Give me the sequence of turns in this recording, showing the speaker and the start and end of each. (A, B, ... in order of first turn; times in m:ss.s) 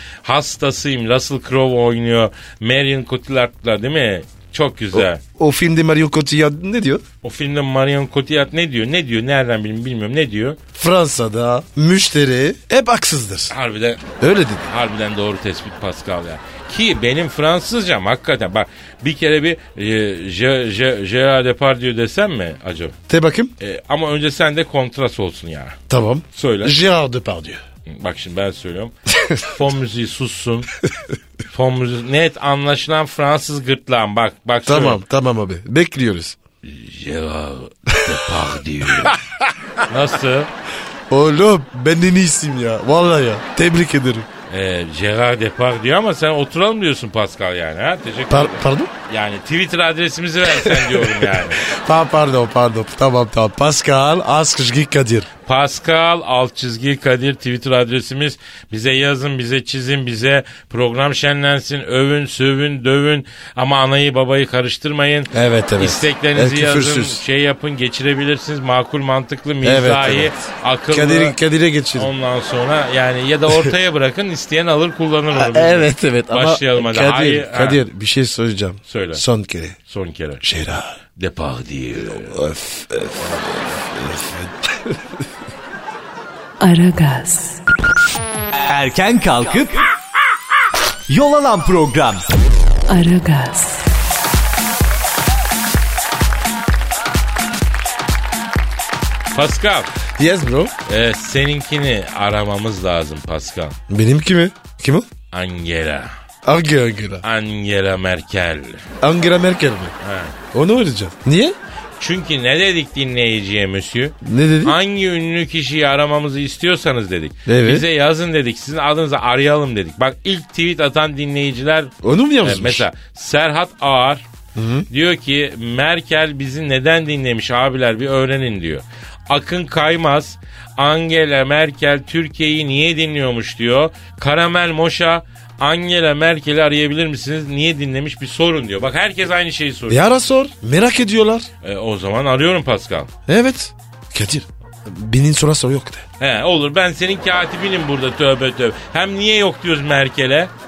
0:00.2-0:05.2 A
0:04.9-0:07.0 B
0:07.2-0:10.6 A
0:10.8-0:13.5 B
0:13.5-0:14.0 A
0:14.2-0:14.7 B
0:14.7-0:23.0 A
0:23.1-0:23.5 B
0:23.6-0:25.8 A
0:25.9-0:27.6 B
0:26.3-0:26.8 A
0:27.9-0:30.7 A
0:31.5-0:35.0 A
0:34.7-0:36.4 B
0:36.6-0:39.2 A
0:39.0-0:39.4 B
0:39.9-0:40.5 A
0:41.1-0:44.3 B
0:44.5-0:51.6 A
0:48.3-0:48.9 B
0:50.6-0:55.3 B
0:55.5-1:11.4 A
1:05.3-1:07.2 B
1:09.6-1:12.1 B
1:11.9-1:17.8 A
1:15.3-1:19.8 B
1:18.9-1:19.2 A
1:19.9-1:20.4 A
1:20.4-1:21.0 B
1:21.2-1:22.4 A
1:22.0-1:25.2 B
1:23.2-1:23.8 A
1:26.6-1:27.6 C
1:28.6-1:29.8 D
1:31.1-1:32.3 D
1:32.9-1:33.9 C
1:39.3-1:39.9 A
1:40.1-1:40.7 B
1:40.9-1:43.8 A
1:43.9-1:45.1 B
1:45.3-1:46.1 A
1:46.4-1:47.2 B
1:47.2-1:48.8 A
1:49.0-1:49.9 B
1:50.0-1:50.4 A
1:50.5-1:51.6 B
1:52.0-2:04.3 A
1:54.2-1:54.8 B
1:57.5-1:57.9 B
2:02.0-2:02.9 B
2:04.6-2:04.9 B
2:04.9-2:20.0 A
2:19.9-2:21.5 B
2:21.6-2:23.1 A
2:23.3-2:26.0 B
2:26.2-2:30.5 A